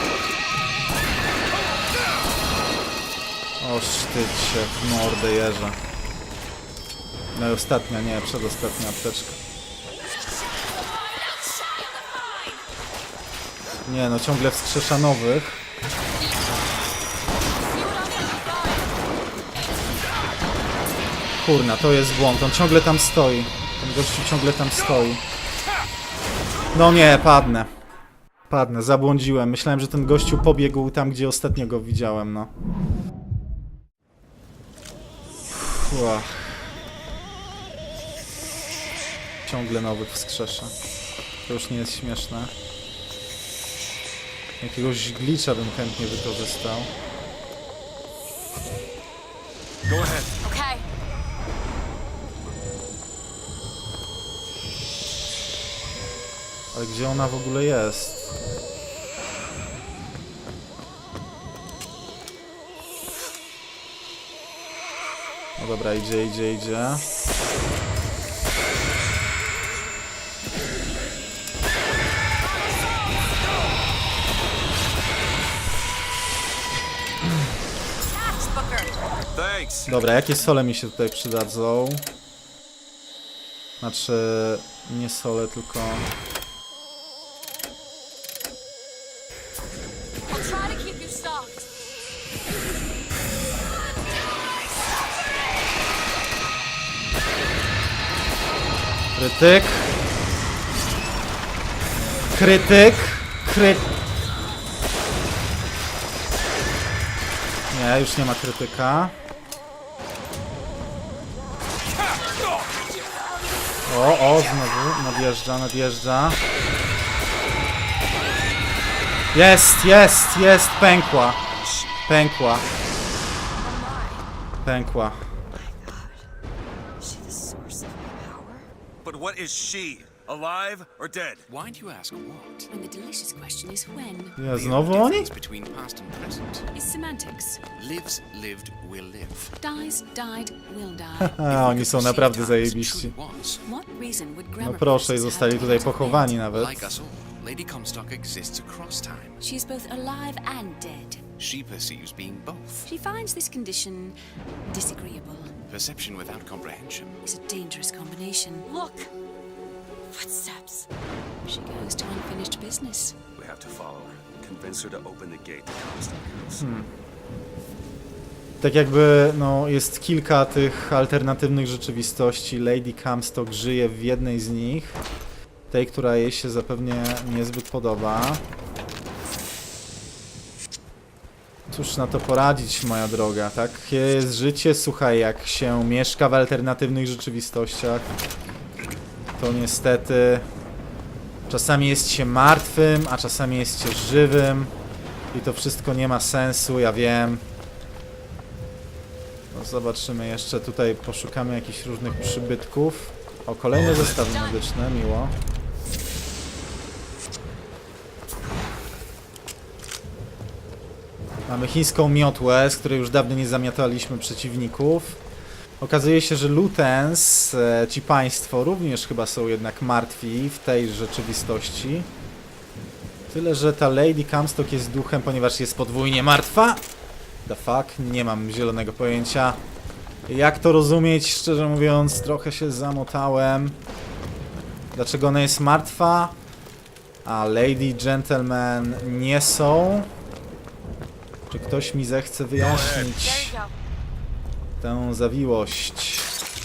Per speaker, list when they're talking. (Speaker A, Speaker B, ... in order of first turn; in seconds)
Speaker A: 3.6-5.8, 7.3-9.4, 13.8-15.6, 21.4-25.2, 26.7-27.7, 28.5-32.5, 35.5-36.7, 39.5-40.7, 41.5-42.5, 44.6-46.9, 56.7-58.3, 65.6-67.0, 79.9-82.0, 83.8-86.1, 99.2-100.0, 102.3-103.9, 107.7-109.1, 113.8-116.4, 119.3-121.4, 122.1-122.7, 124.6-125.2, 134.4-135.3, 141.2-143.1, 144.6-146.9, 166.6-166.9, 168.6-175.0, 175.7-178.4, 181.7-188.1, 189.3-190.5, 191.5-194.7, 195.3-197.4, 199.5-205.3, 211.5-215.2, 215.8-222.1, 223.3-226.8, 227.4-229.6, 230.3-233.8, 234.9-236.3, 237.2-240.1, 241.5-243.6, 244.8-246.3
Speaker B: 11.1-12.6, 132.7-134.4, 136.7-137.6, 139.6-141.4, 143.6-146.4, 149.4-151.2, 152.8-154.1, 154.7-155.5, 157.2-158.7, 161.4-163.2
Speaker C: 17.6-18.9, 50.4-50.9, 78.0-79.0, 90.3-91.7, 94.0-94.7, 123.6-124.3, 125.5-126.3, 127.0-128.7, 158.6-159.1, 160.1-160.9, 204.1-204.6, 243.1-243.7
Speaker D: 49.9-50.3, 79.3-79.9, 129.0-131.5, 163.3-166.7, 242.6-243.2
Speaker E: 121.5-122.0, 131.5-132.7, 134.4-136.7, 137.7-139.5, 141.4-143.6, 146.5-149.4, 151.4-152.9, 155.7-157.2